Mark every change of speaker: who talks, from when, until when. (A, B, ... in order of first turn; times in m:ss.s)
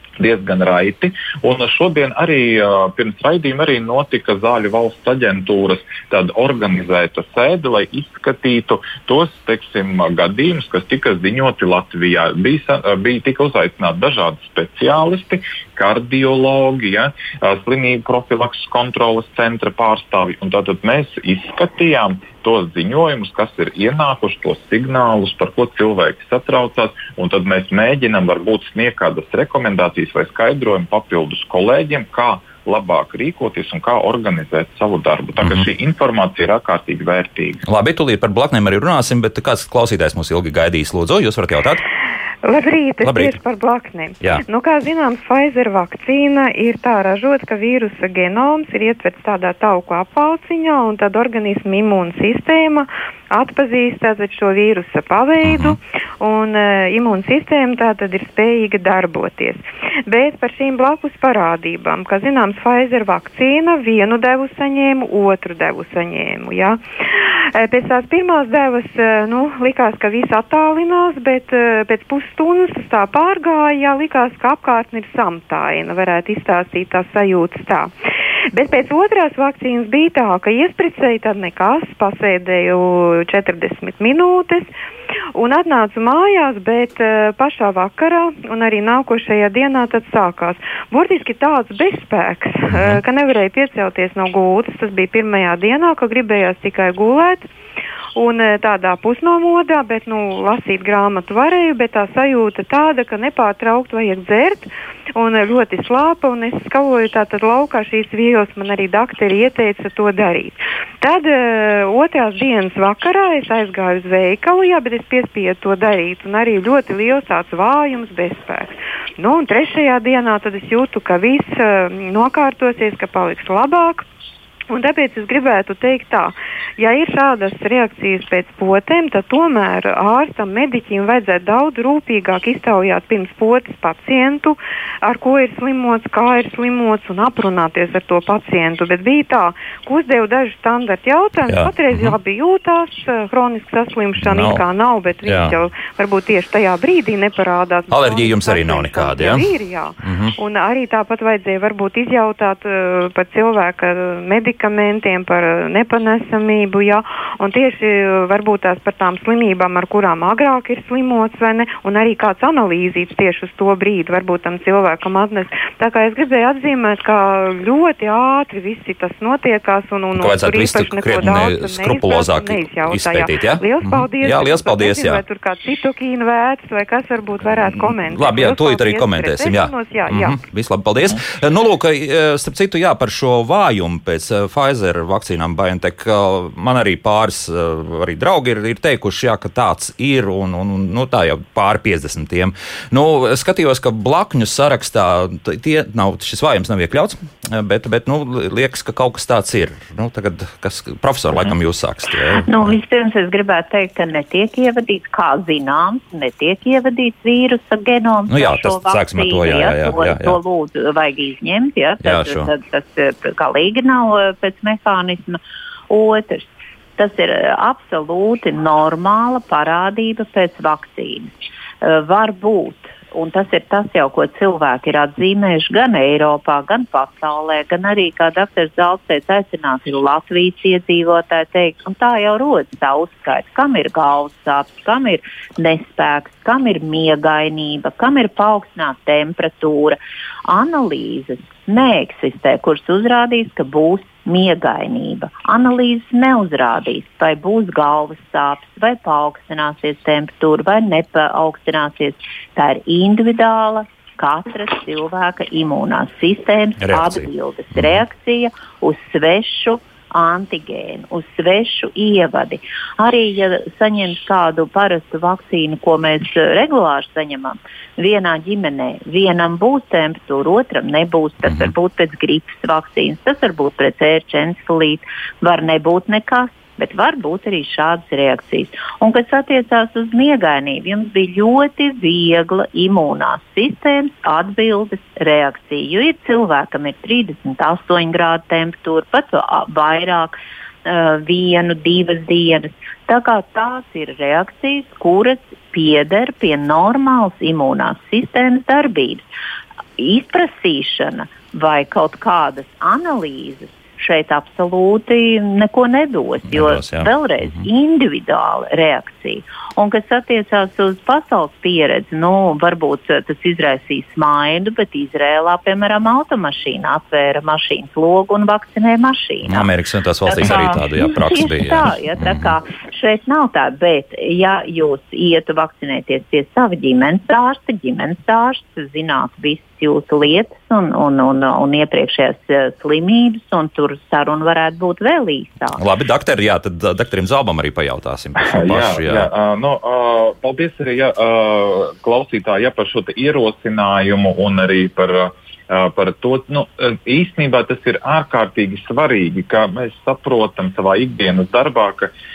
0:00.2-0:37.6 A
0:37.7-0:41.8 B
0:42.4-1:17.9 C
0:43.0-0:43.3 B
0:55.4-0:55.8 B
1:18.5-1:24.7 C
1:25.3-1:37.5 C
1:32.7-1:33.0 B
1:38.2-2:04.0 C
2:04.7-3:00.4 C
2:21.5-2:22.1 B
2:24.2-2:24.6 B
2:25.2-2:25.6 B
2:27.9-2:29.5 B
2:30.0-2:30.3 B
2:50.1-2:55.2 B
2:57.6-3:22.7 B
3:22.4-3:35.4 D
3:28.3-3:30.4 B
3:32.0-3:32.5 B
3:35.9-4:59.3 D
4:16.8-4:18.0 B
5:00.0-5:19.7 D
5:06.5-5:07.6 B
5:19.4-5:22.5 B
5:20.2-5:35.8 D
5:35.8-5:39.3 B
5:38.4-5:52.1 A